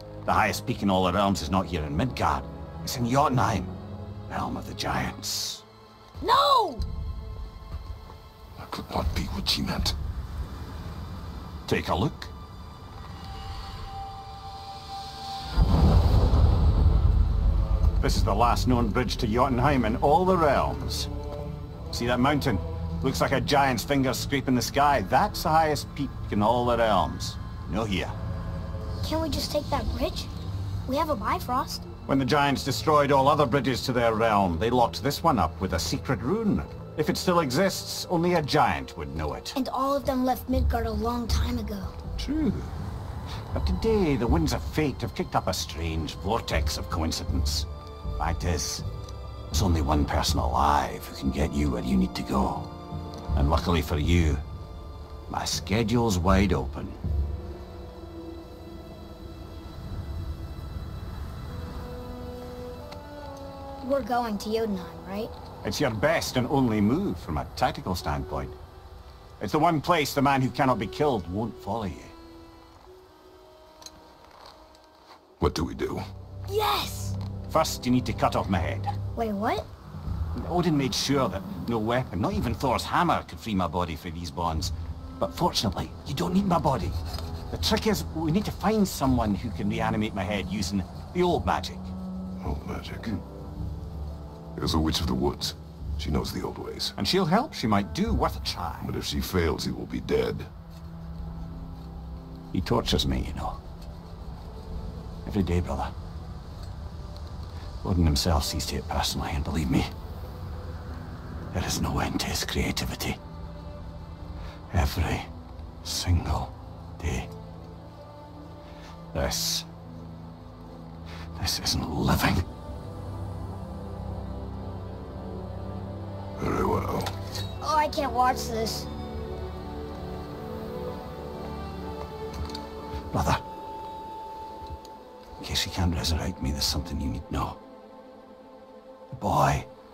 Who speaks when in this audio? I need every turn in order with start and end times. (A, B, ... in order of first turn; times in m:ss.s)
0:00.3-0:03.8 A
0:04.3-0:05.6 A
0:06.2-0:06.9 B
0:08.6-0:10.0 C
0:11.7-0:12.3 A
0:18.0-0:21.1 A
0:21.9-0:28.2 A
0:29.0-0:30.3 B
0:30.9-0:31.9 B
0:32.1-0:39.6 A
0:39.6-0:42.0 B
0:42.2-0:42.7 A
0:43.5-0:47.7 A
0:48.2-0:48.8 A
0:49.5-0:52.7 A
0:53.4-0:54.4 A
0:55.3-0:57.0 A
1:03.8-1:05.3 B
1:05.6-1:08.6 A
1:09.4-1:12.1 A
1:15.4-1:16.0 C
1:16.5-1:17.2 B
1:17.5-1:18.9 A
1:19.2-1:19.7 B
1:20.4-1:27.0 A
1:27.5-1:31.9 A
1:32.4-1:33.2 C
1:34.6-1:37.0 C
1:37.0-1:38.9 A
1:38.8-1:40.5 C
1:42.5-1:43.6 A
1:45.3-1:45.9 A
1:47.8-1:49.9 A
1:51.5-1:53.2 A
1:54.7-1:55.3 A
1:55.8-1:57.3 A
1:59.1-1:59.7 A
2:01.4-2:02.4 A
2:06.4-2:07.1 C
2:07.6-2:08.9 B
2:13.1-2:13.4 A
2:15.4-2:17.6 A
2:19.1-2:19.7 A